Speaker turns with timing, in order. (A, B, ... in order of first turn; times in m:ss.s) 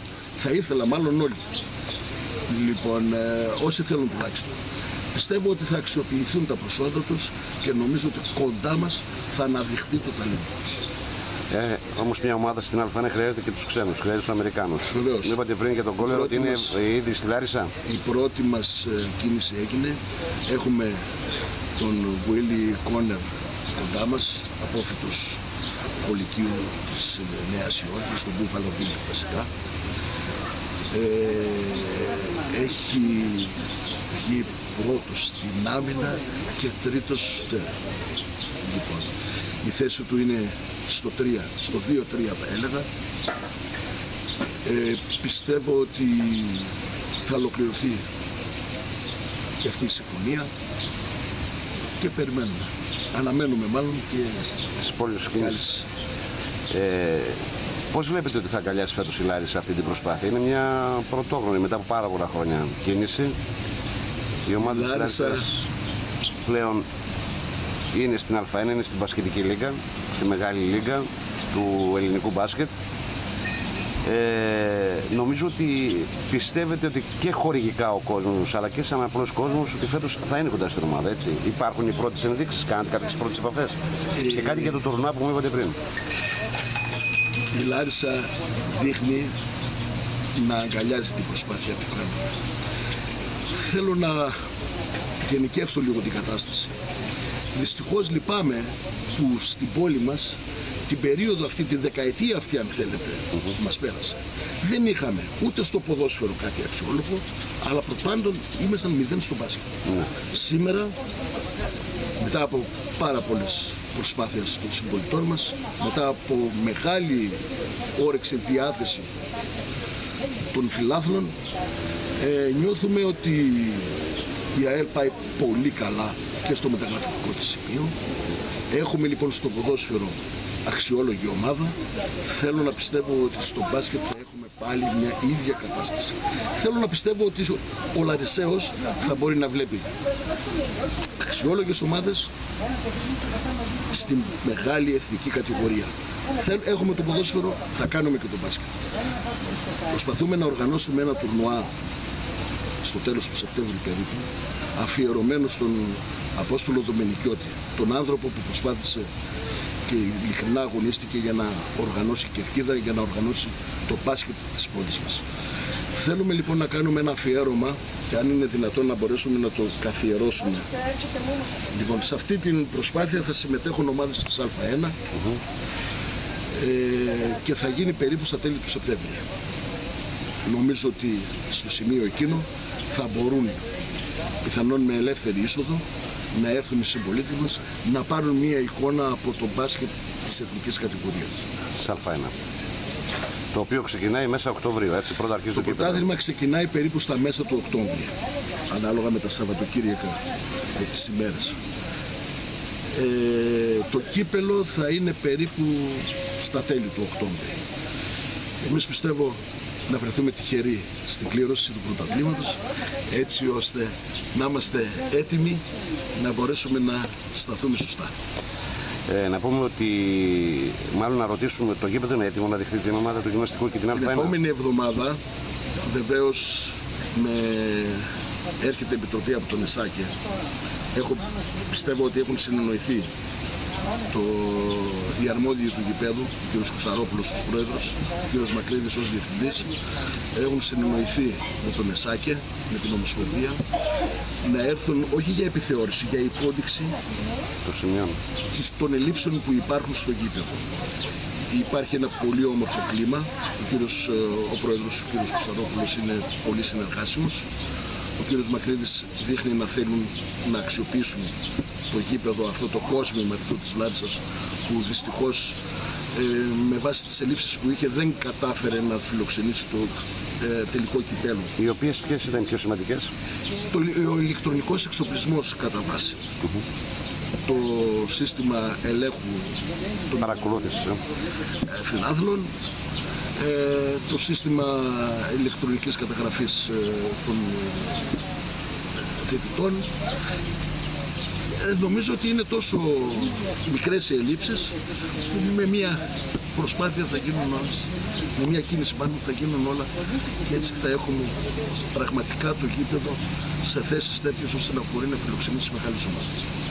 0:00.4-0:01.4 A
0:02.5-0:04.6 A
0:05.1-0:10.8 A
0:11.5-0:17.7 B
0:14.9-0:15.4 A
0:16.0-0:16.8 A
0:17.8-0:20.0 A
0:20.5-0:21.0 A
0:21.8-0:23.2 A
0:23.8-0:25.4 A
0:26.0-0:29.5 A
0:30.9-0:33.6 A
0:34.2-0:37.7 A
0:38.6-0:39.1 A
0:39.6-0:42.9 A
0:44.6-0:46.7 A
0:47.2-0:48.0 A
0:49.6-0:50.5 A
0:52.0-0:54.5 A
0:54.8-0:55.6 B
0:55.3-0:55.8 A
0:56.7-0:57.4 B
0:57.9-1:03.3 B
1:04.5-1:05.6 B
1:04.6-1:05.5 A
1:06.4-1:06.8 B
1:07.9-1:12.7 B
1:14.1-1:23.8 B
1:24.2-1:24.8 A
1:24.3-1:25.8 B
1:27.5-1:29.3 A
1:30.4-1:32.2 A
1:33.6-1:34.3 A
1:35.2-1:36.7 A
1:37.5-1:40.4 A
1:40.9-1:49.7 A
1:50.3-1:50.9 A
1:52.2-1:57.4 A
1:58.0-1:59.1 A
2:00.5-2:01.3 A
2:02.2-2:07.9 A
2:08.7-2:19.9 A
2:21.2-2:22.3 A
2:23.9-2:28.7 A
2:29.9-2:31.7 A
2:32.8-2:39.1 A
2:39.9-2:45.2 A
2:46.0-2:50.6 A
2:51.7-2:54.9 A
2:56.6-2:59.2 A
3:00.5-3:03.6 A
3:04.4-3:05.8 A
3:06.3-3:11.4 A
3:11.8-3:12.3 B
3:13.5-3:16.0 B
3:15.5-3:18.1 A
3:18.7-3:20.2 A
3:20.8-3:21.6 A
3:22.9-3:27.5 A
3:28.6-3:29.4 A
3:29.9-3:32.6 A
3:33.1-3:35.6 A
3:36.2-3:38.1 A
3:39.1-3:44.3 B
3:43.9-3:45.2 A
3:45.9-3:48.0 A
3:48.6-3:50.1 A
3:50.9-3:53.1 A
3:54.1-3:59.7 A
4:00.4-4:03.6 A
4:04.4-4:07.0 A
4:07.6-4:08.2 B
4:08.5-4:10.6 A
4:11.5-4:17.4 A
4:18.2-4:21.3 A
4:21.9-4:25.6 A
4:26.2-4:31.5 A
4:31.6-4:33.1 B
4:33.7-4:36.2 A
4:37.5-4:39.5 A
4:40.2-4:41.0 B
4:41.7-4:42.5 A
4:43.4-4:47.8 A
4:49.2-4:49.9 A
4:51.6-4:54.8 A
4:55.3-4:56.0 A
4:56.5-4:59.9 A
5:00.5-5:01.3 A
5:01.9-5:06.4 A